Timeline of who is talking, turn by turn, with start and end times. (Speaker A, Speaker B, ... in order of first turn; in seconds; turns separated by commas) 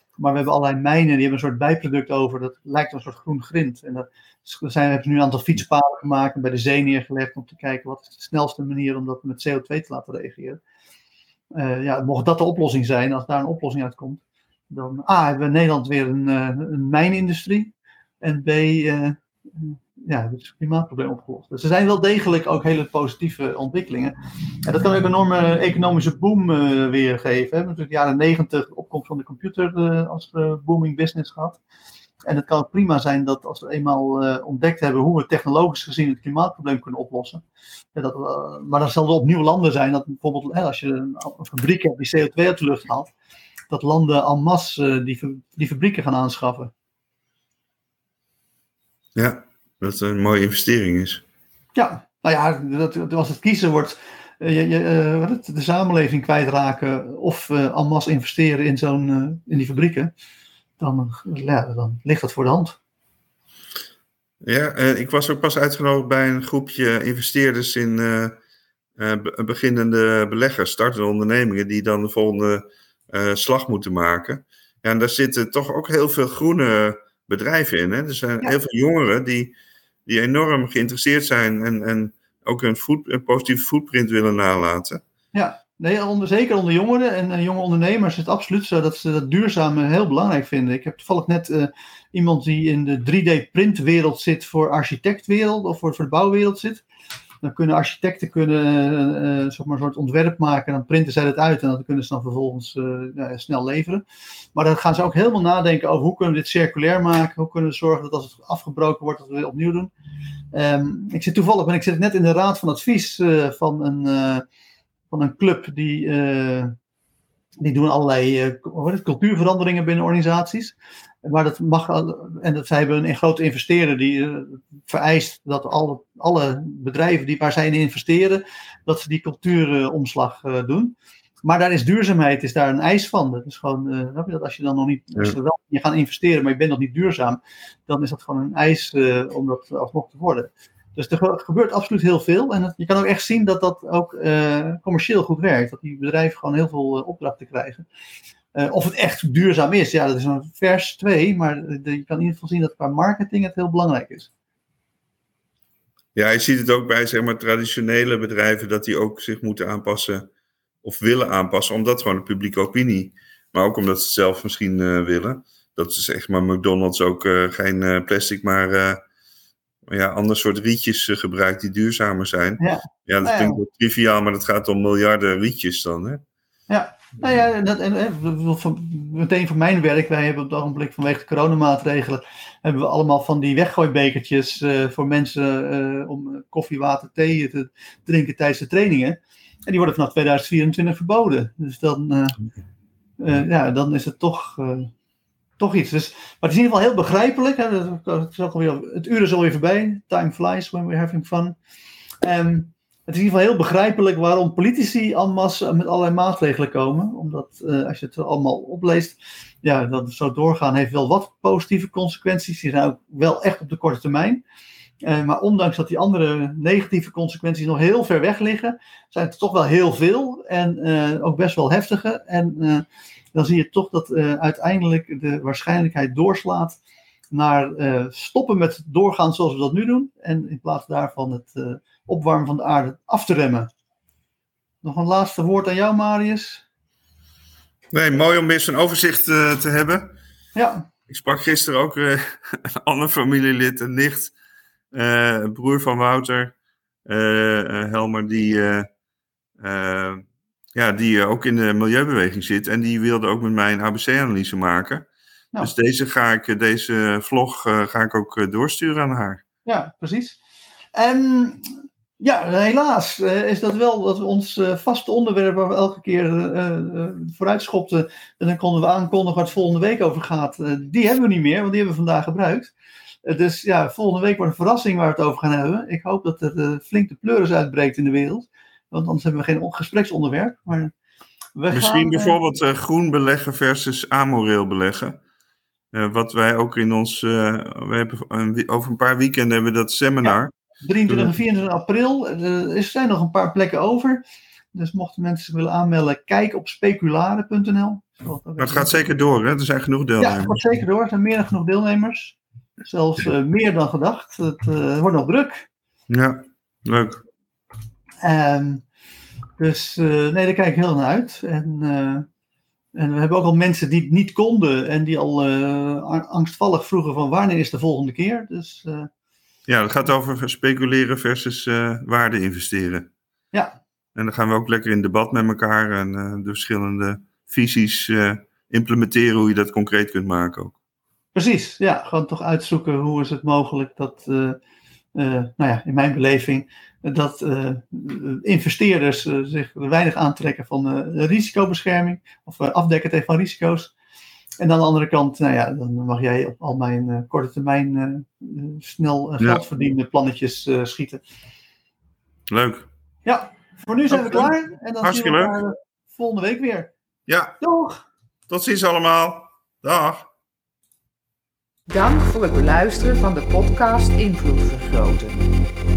Speaker A: 0.2-10.6, Speaker A: 11.5-31.6, Speaker A: 32.2-37.4, Speaker A: 37.9-43.1, Speaker A: 43.7-46.7, Speaker B: 49.1-51.2, Speaker A: 51.8-60.1, Speaker A: 60.8-62.8, Speaker B: 64.4-68.4, Speaker B: 69.0-79.5, Speaker B: 80.0-85.0, Speaker A: 85.3-96.8, Speaker A: 97.4-104.0, Speaker A: 104.5-109.9, Speaker A: 110.5-114.4, Speaker A: 115.1-116.7, Speaker A: 117.6-147.8, Speaker A: 148.5-154.3, Speaker B: 156.1-160.3, Speaker B: 160.8-169.0, Speaker B: 169.9-176.2, Speaker A: 172.6-173.6, Speaker A: 176.7-192.4, Speaker A: 193.2-194.9, Speaker A: 195.6-201.6, Speaker A: 202.2-214.4, Speaker A: 215.0-226.8, Speaker A: 227.3-233.7, Speaker A: 234.8-236.6, Speaker B: 237.9-240.1, Speaker A: 240.5-240.9, Speaker B: 241.1-244.3, Speaker B: 244.9-246.5, Speaker B: 247.1-248.9, Speaker B: 249.6-255.1, Speaker B: 255.6-259.4, Speaker A: 259.6-260.4, Speaker A: 260.9-272.7, Speaker A: 273.2-280.9, Speaker A: 281.6-282.4, Speaker B: 281.7-285.2, Speaker B: 285.9-290.5, Speaker A: 290.2-294.2, Speaker A: 294.7-298.9, Speaker B: 298.6-300.6, Speaker A: 300.2-305.7, Speaker B: 306.1-307.2, Speaker A: 308.2-308.8, Speaker A: 309.6-312.3, Speaker A: 312.9-319.1, Speaker B: 319.7-323.1, Speaker A: 323.5-323.8, Speaker B: 324.1-330.8, Speaker A: 331.3-334.6, Speaker A: 335.1-343.9, Speaker A: 344.6-351.2, Speaker B: 352.5-352.9, Speaker A: 353.2-356.9, Speaker B: 354.1-355.6, Speaker B: 357.3-357.6, Speaker A: 357.6-358.0, Speaker B: 358.5-360.3, Speaker C: 361.9-365.5